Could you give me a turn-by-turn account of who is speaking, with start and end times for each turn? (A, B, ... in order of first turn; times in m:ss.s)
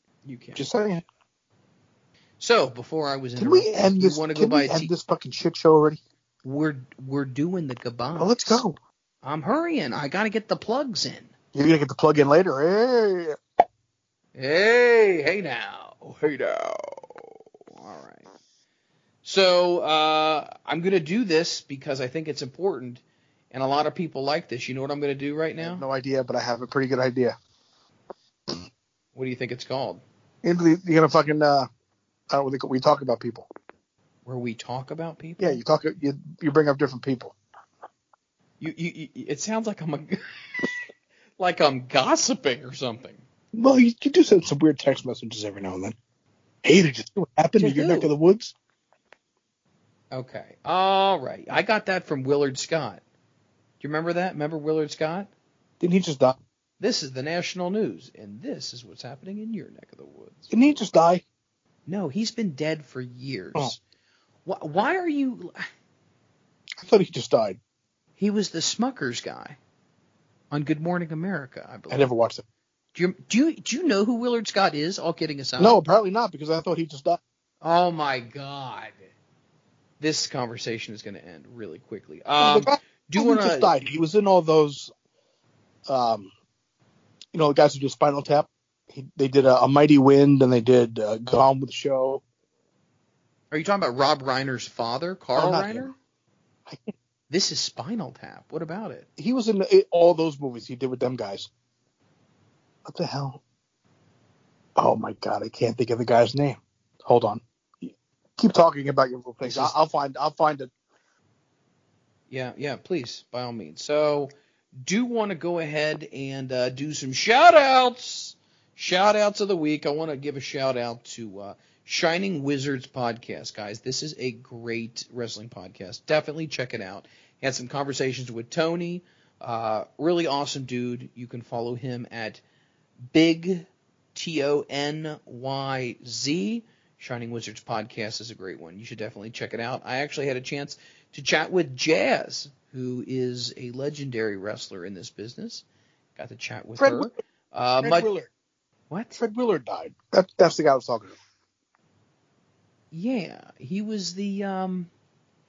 0:00.2-0:00.6 A
0:00.6-0:01.0 B
0:02.4-0:04.9 A
0:03.4-0:06.0 B
0:06.4-0:08.6 A
0:08.2-0:08.8 B
0:09.2-0:11.3 A
0:11.5-0:13.4 B
0:14.3-0:18.3 A
0:19.2-0:25.8 A
0:25.6-0:27.4 B
0:29.1-0:30.0 A
0:30.4-0:31.7 B
0:32.3-0:33.5 B
0:34.2-0:35.6 A
0:35.4-0:37.4 B
0:38.6-0:40.6 A
0:41.4-0:43.2 A
0:43.5-0:46.0 B
0:46.6-0:48.5 B
0:47.6-0:48.1 A
0:50.1-0:53.0 A
0:53.8-0:55.3 A
0:55.8-0:56.4 B
0:56.8-1:00.8 A
1:00.5-1:01.2 B
1:01.8-1:03.8 A
1:04.4-1:05.7 A
1:06.8-1:07.6 B
1:08.2-1:09.6 A
1:10.5-1:12.1 A
1:11.9-1:12.4 B
1:12.9-1:15.8 A
1:15.6-1:17.2 B
1:17.6-1:19.1 A
1:20.0-1:23.8 A
1:22.4-1:24.9 B
1:25.9-1:26.3 B
1:27.3-1:32.2 B
1:33.5-1:35.9 A
1:35.4-1:35.9 B
1:36.6-1:36.9 B
1:37.3-1:39.1 A
1:39.2-1:41.5 B
1:42.8-1:43.4 B
1:44.8-1:50.7 B
1:49.4-1:49.7 A
1:52.3-2:12.4 A
2:13.1-2:25.6 A
2:26.2-2:28.1 A
2:26.8-2:27.2 B
2:27.8-2:28.3 B
2:28.9-2:29.2 A
2:29.2-2:31.2 B
2:32.9-2:34.9 A